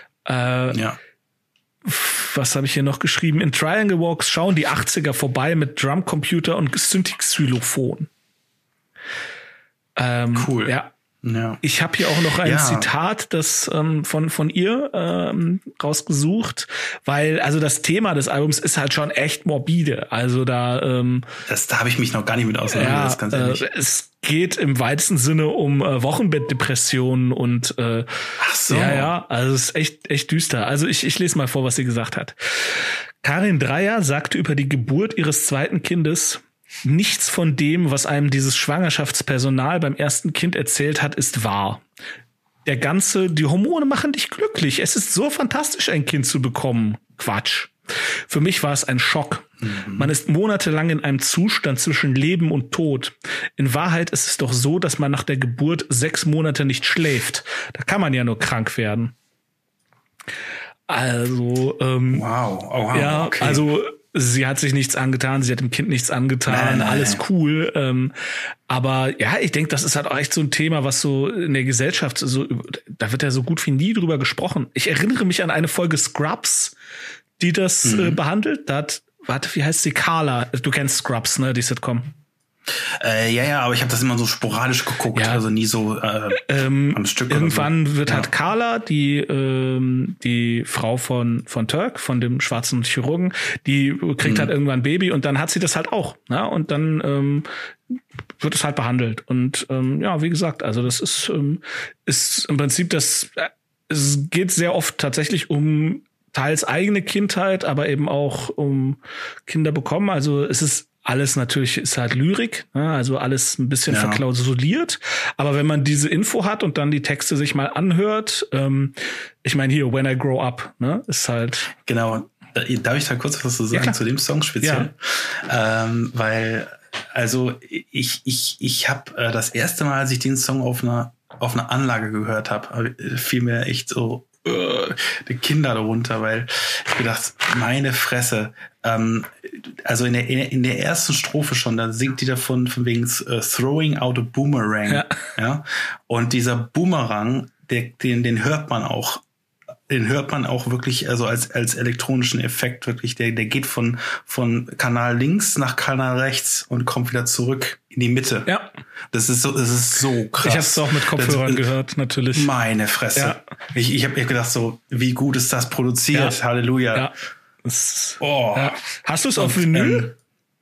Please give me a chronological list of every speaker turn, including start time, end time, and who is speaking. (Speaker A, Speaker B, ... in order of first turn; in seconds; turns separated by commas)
Speaker A: 0.3-0.8, Speaker B: 0.7-1.0, Speaker A: 1.9-8.1, Speaker A: 10.0-10.9, Speaker B: 10.3-11.6, Speaker A: 11.6-21.2, Speaker B: 12.4-12.9, Speaker B: 21.5-23.7, Speaker A: 22.7-28.1, Speaker B: 28.4-29.1, Speaker A: 28.7-41.8, Speaker A: 42.6-59.1, Speaker B: 49.6-50.1, Speaker A: 60.9-62.2, Speaker B: 62.1-63.6, Speaker A: 62.9-68.1, Speaker B: 66.5-67.2, Speaker A: 68.7-76.8, Speaker A: 77.4-82.1, Speaker B: 77.8-78.2, Speaker B: 82.9-88.3, Speaker A: 85.1-85.4, Speaker A: 86.3-97.5, Speaker B: 94.2-94.5, Speaker A: 98.4-121.7, Speaker B: 113.9-114.2, Speaker B: 121.8-149.2, Speaker A: 124.6-124.9, Speaker A: 144.9-145.2, Speaker B: 149.9-158.5, Speaker A: 158.5-158.7, Speaker B: 159.1-161.7, Speaker A: 160.4-162.5, Speaker B: 162.3-167.1, Speaker A: 166.1-166.4, Speaker A: 167.6-170.1, Speaker B: 168.2-168.8, Speaker B: 169.4-170.1